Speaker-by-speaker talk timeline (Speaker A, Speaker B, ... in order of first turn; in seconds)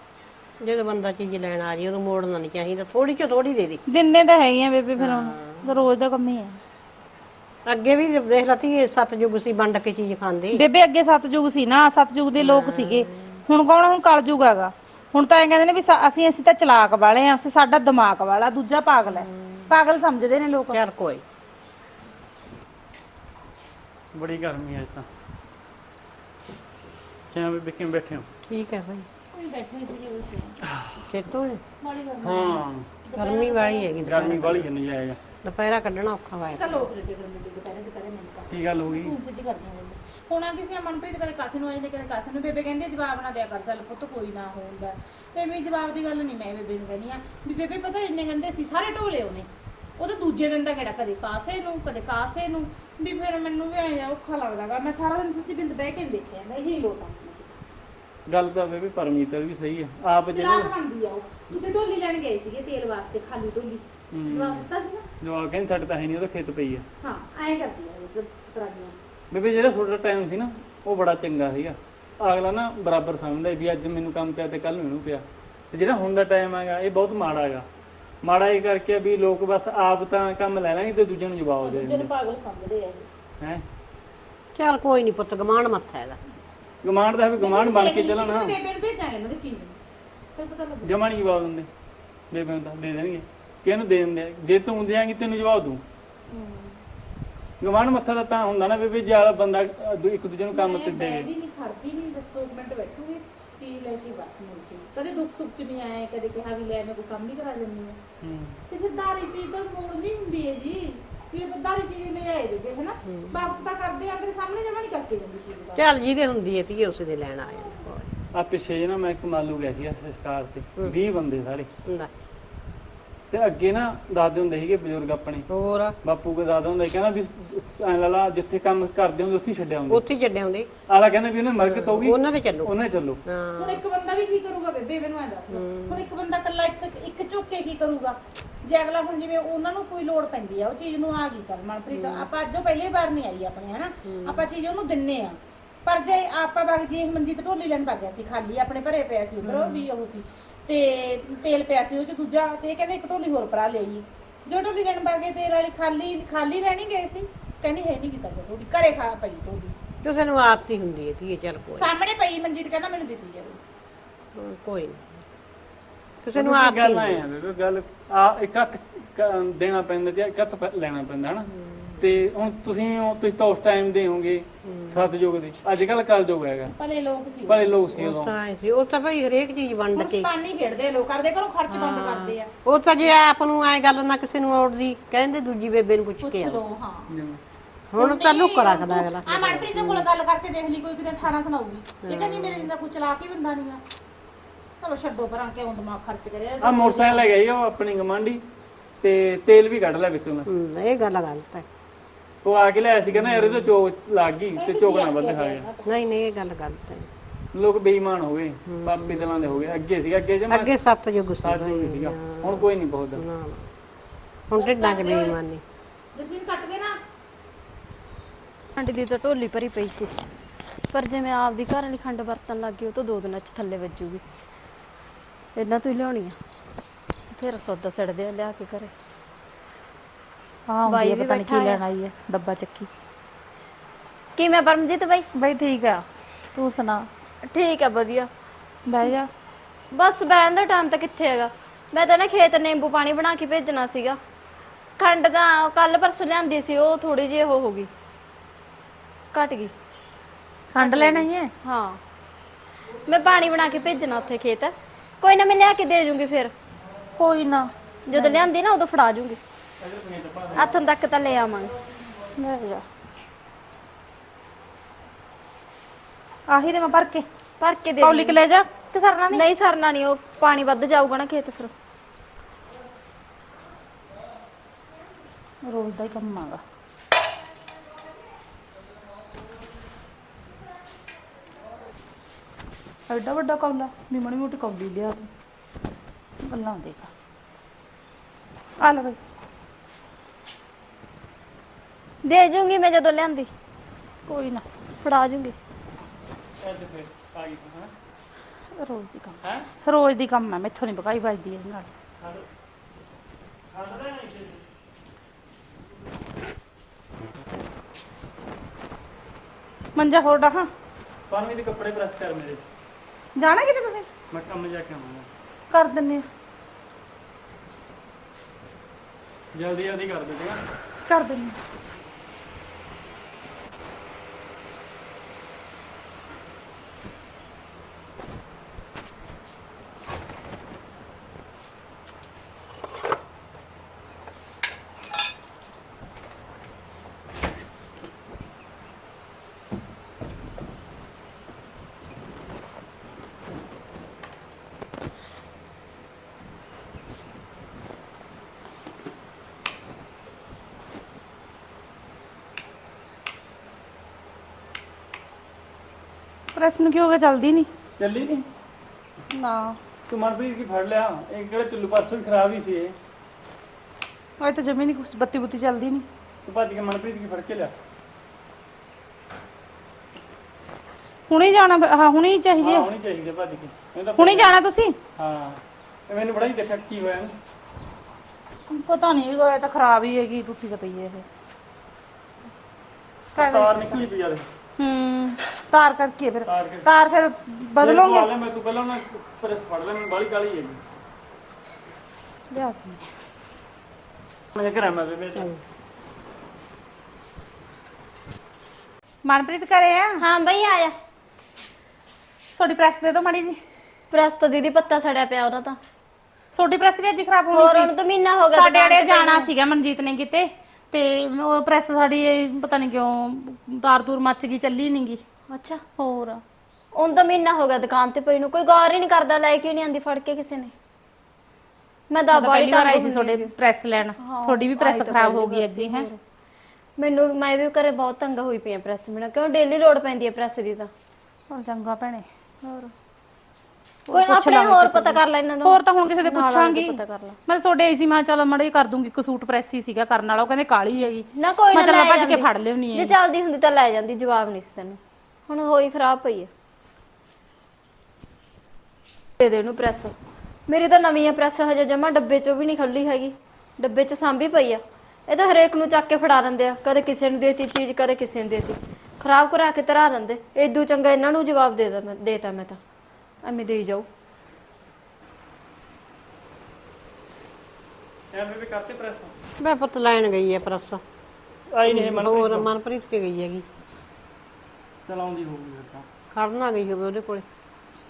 Speaker A: 0.6-3.8, 5.0-5.7, 7.7-10.6, 12.4-13.4, 19.1-19.7, 20.7-21.2, 28.4-29.1, 31.0-31.6, 33.1-34.7, 35.4-36.8, 84.5-86.2, 113.0-113.5, 115.8-118.1, 121.8-122.1, 125.5-126.0, 129.9-130.7, 131.6-132.7, 133.2-133.8, 135.5-136.1, 141.9-142.3, 144.0-144.5, 149.4-149.9, 160.0-161.9, 164.3-165.2, 166.2-167.2, 171.5-172.0, 174.6-175.1, 177.9-180.3, 181.7-186.6, 187.9-190.1, 192.0-192.7, 200.4-201.7, 203.1-203.7, 205.8-207.1, 208.7-209.3, 210.5-213.7, 214.5-215.6, 469.6-471.0, 471.8-473.6, 476.3-477.4
Speaker B: 3.9-6.6, 10.5-20.8, 29.3-30.6, 31.8-33.9, 36.5-57.6, 60.3-65.0, 67.0-69.0, 81.6-83.1, 87.4-89.8, 90.4-91.0, 96.3-96.7, 100.5-108.0, 108.7-115.8, 133.6-159.7, 161.8-163.6, 176.8-177.7, 179.9-182.5, 186.2-187.1, 188.0-193.8, 194.8-197.2, 204.5-205.9, 214.6-215.4, 216.1-217.0, 230.7-232.9, 235.3-237.1, 238.9-239.3, 250.7-251.5, 257.2-258.4, 262.4-262.8, 266.5-267.2, 268.0-269.4, 275.6-276.6, 283.1-285.3, 286.4-287.1, 288.8-289.2, 294.3-294.6, 298.8-301.9, 309.9-310.7, 313.4-314.1, 315.7-316.2, 321.1-321.6, 356.5-357.7, 359.3-359.8, 364.4-366.1, 371.3-372.9, 374.2-375.0, 378.7-381.2, 383.3-384.0, 384.8-388.3, 392.5-393.1, 399.2-400.2, 402.5-403.6, 406.5-407.9, 408.5-415.2, 416.0-416.4, 422.3-426.1, 431.5-432.9, 434.1-443.1
Speaker C: 24.1-25.1, 27.3-28.3, 30.7-31.0, 32.2-32.9, 34.0-35.2, 38.5-39.1, 58.3-60.7, 64.1-64.7, 65.2-66.8, 69.3-77.7, 78.2-82.1, 86.8-88.5, 90.8-91.7, 92.3-95.8, 97.6-101.3, 108.2-108.6, 118.3-121.7, 123.3-125.5, 126.0-130.1, 130.9-133.2, 166.3-176.7, 177.5-178.3, 187.1-187.4, 196.6-198.4, 199.0-200.5, 202.4-205.7, 207.5-210.7, 211.4-213.2, 259.8-260.7, 296.6-297.9, 299.4-299.7, 303.7-304.6, 311.3-312.6, 314.3-315.3, 319.5-320.6, 358.0-358.5, 360.1-362.9, 366.4-367.7, 372.6-374.6, 375.1-377.4, 383.4-384.5, 386.4-386.9, 387.8-390.8, 394.5-395.5, 468.3-469.3, 471.7-472.7, 475.0-476.1
Speaker D: 218.8-220.2, 220.9-224.2, 225.6-226.3, 227.3-228.9, 230.8-231.8, 234.4-235.2, 237.5-238.3, 239.9-244.2, 245.0-247.9, 249.3-249.7, 250.8-252.0, 253.1-256.5, 258.1-259.4, 260.5-261.7, 267.6-268.4, 269.3-271.7, 292.2-293.5, 295.0-295.6, 400.2-400.9, 404.1-405.8, 407.5-409.5, 415.5-415.8, 416.9-420.7, 422.1-423.5, 424.2-426.2, 427.0-430.9, 434.1-437.4, 441.4-446.5, 449.4-450.1, 450.7-462.8, 463.4-464.1